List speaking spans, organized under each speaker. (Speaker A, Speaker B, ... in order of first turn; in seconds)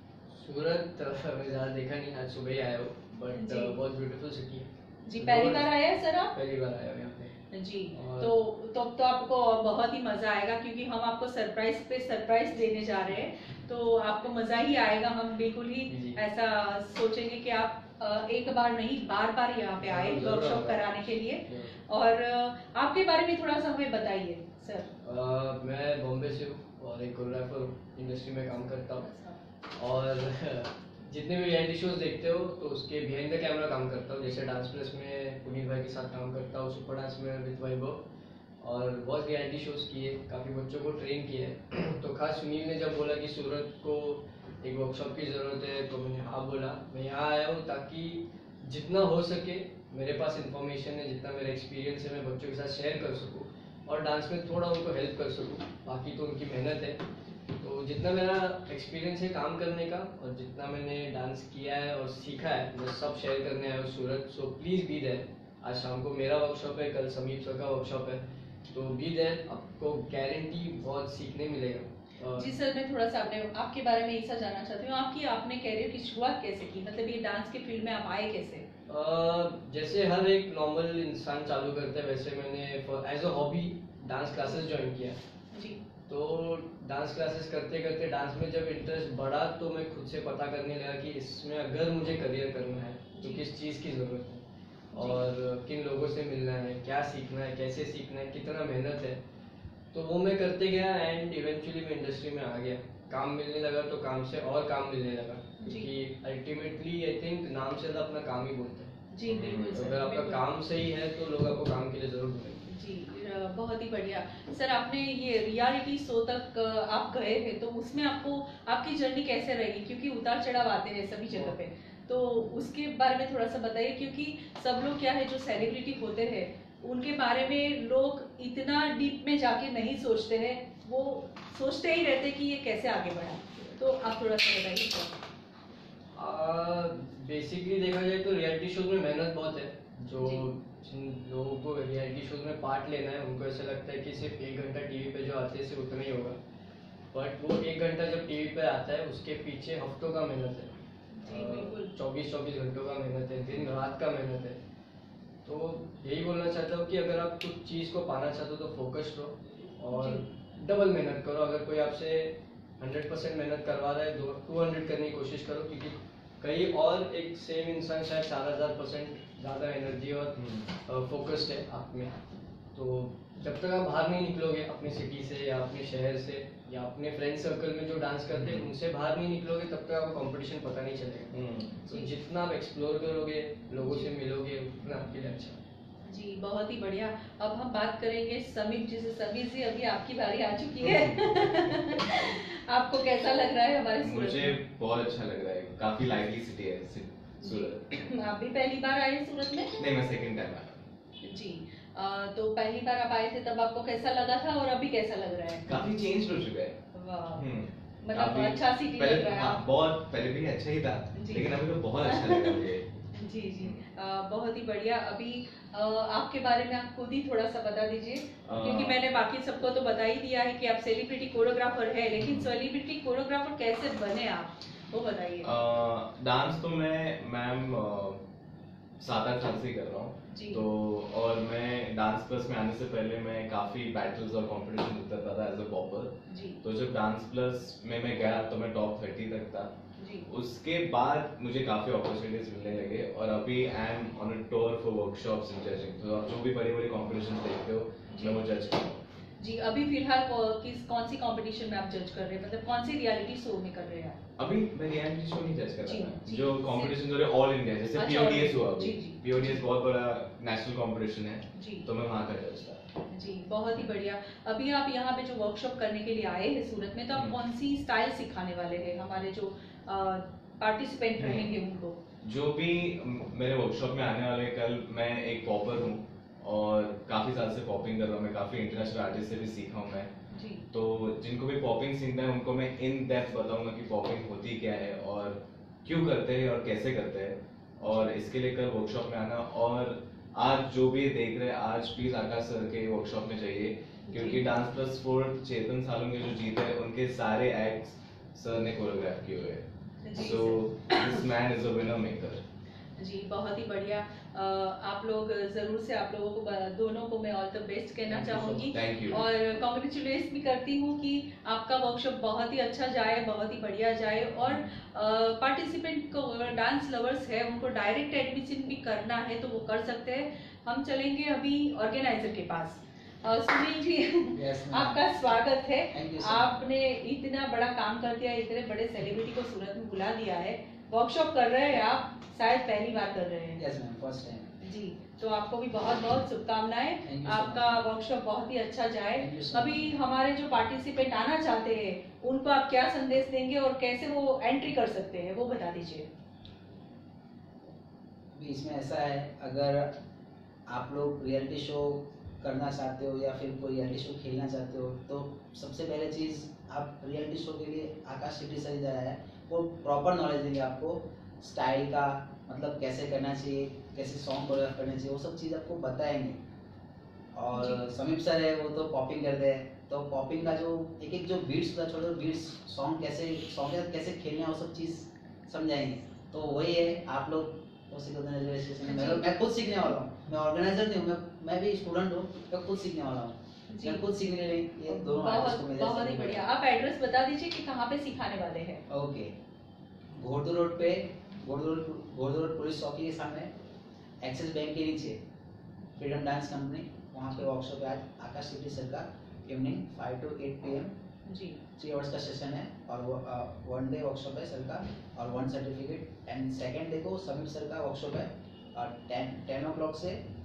Speaker A: 0.3-7.4, 7.9-8.3, 15.9-16.2, 19.8-21.8, 25.0-29.1, 29.8-38.0, 38.6-57.0, 57.6-72.5, 78.9-85.2, 86.1-99.2, 99.9-108.9, 109.7-112.7, 136.1-146.4, 147.1-154.6, 155.4-172.1, 172.7-181.3, 181.8-185.6, 308.1-308.7
Speaker B: 3.3-3.7, 5.0-6.3, 7.5-24.9, 29.0-29.4, 72.3-78.7, 85.5-85.8, 93.2-93.4, 94.9-95.2, 105.6-105.9, 109.1-110.4, 112.7-135.1, 140.2-140.4, 151.1-151.9, 159.9-160.2, 186.1-194.6, 197.4-199.7, 201.2-205.7, 206.9-207.5, 208.0-209.6, 211.1-225.5, 230.3-230.7, 236.3-236.6, 240.0-240.3, 248.1-248.4, 249.4-254.2, 255.8-256.9, 257.9-259.6, 261.5-261.9, 263.1-272.0, 280.3-280.6, 287.8-288.1, 294.1-294.5, 300.0-301.2, 303.0-333.6, 334.6-346.1, 367.5-367.8, 378.8-379.3, 383.7-384.0, 384.9-388.8, 401.2-401.6
Speaker C: 109.3-109.8, 170.4-170.7, 178.3-178.7, 181.3-181.8, 190.8-192.3, 194.0-197.8, 199.8-200.8, 205.7-206.8, 207.3-212.8, 218.4-219.0, 222.2-222.5, 225.4-228.2, 229.0-239.7, 240.3-249.0, 254.4-262.8, 271.2-271.5, 272.2-280.1, 280.7-302.4, 308.7-309.2
Speaker D: 324.3-325.0, 325.9-326.5, 333.6-334.5, 337.0-337.9, 339.1-339.9, 348.3-349.9, 350.7-366.4, 367.3-386.4, 388.9-389.3, 390.1-393.5, 394.2-395.2, 396.0-400.9, 401.8-410.2